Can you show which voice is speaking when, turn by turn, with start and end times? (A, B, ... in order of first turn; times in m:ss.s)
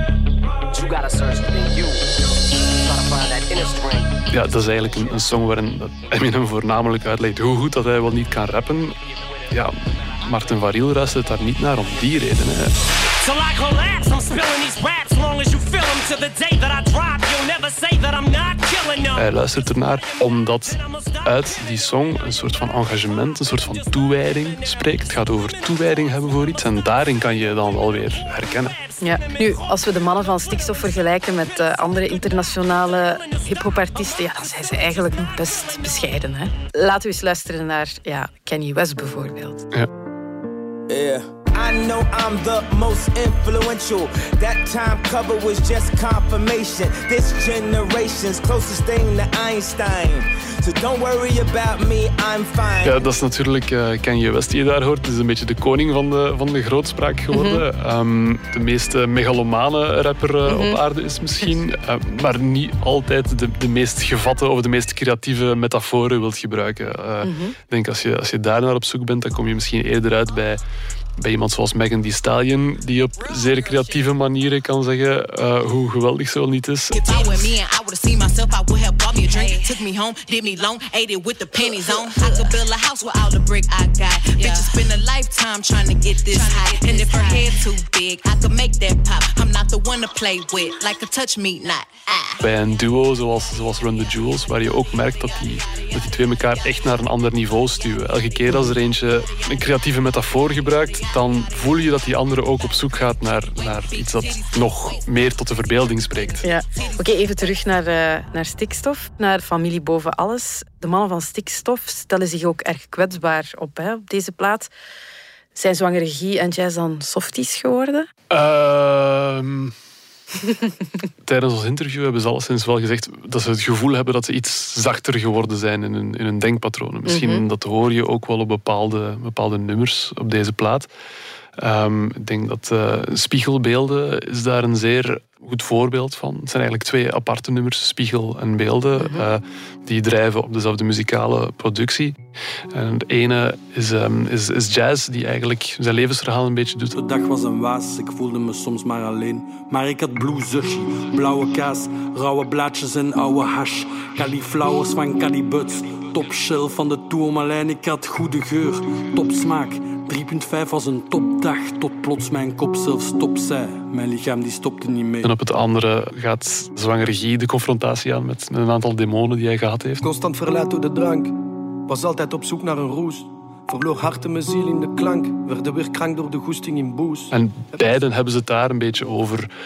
0:00.7-0:04.2 A
0:04.3-0:12.8 B
0:13.2-0:19.3 C
0:19.1-0:28.8 B
0:20.1-0:22.2 C
0:23.1-0:27.1 C
0:27.8-0:28.0 C
0:28.6-0:29.7 C
0:29.0-0:39.7 D
0:30.2-0:32.3 C
0:32.9-0:33.9 C
0:40.9-0:53.0 E
0:52.8-1:10.6 B
0:57.3-0:57.6 D
1:00.4-1:00.8 D
1:07.2-1:07.5 D
1:11.2-1:17.0 B
1:16.9-1:32.4 F
1:32.4-1:46.5 B
1:38.5-1:38.8 D
1:41.0-1:41.5 F
1:43.8-1:44.7 F
1:46.4-1:54.7 D
1:46.6-1:46.9 F
1:55.5-1:58.1 D
1:58.3-1:59.7 B
2:00.5-2:00.7 D
2:01.2-2:10.9 B
2:07.1-2:07.4 D
2:11.6-2:22.2 B
2:19.0-2:19.2 D
2:22.7-2:27.0 B
2:26.9-2:45.3 G
2:45.2-2:50.0 B
2:50.0-2:58.1 H
2:57.3-2:59.5 B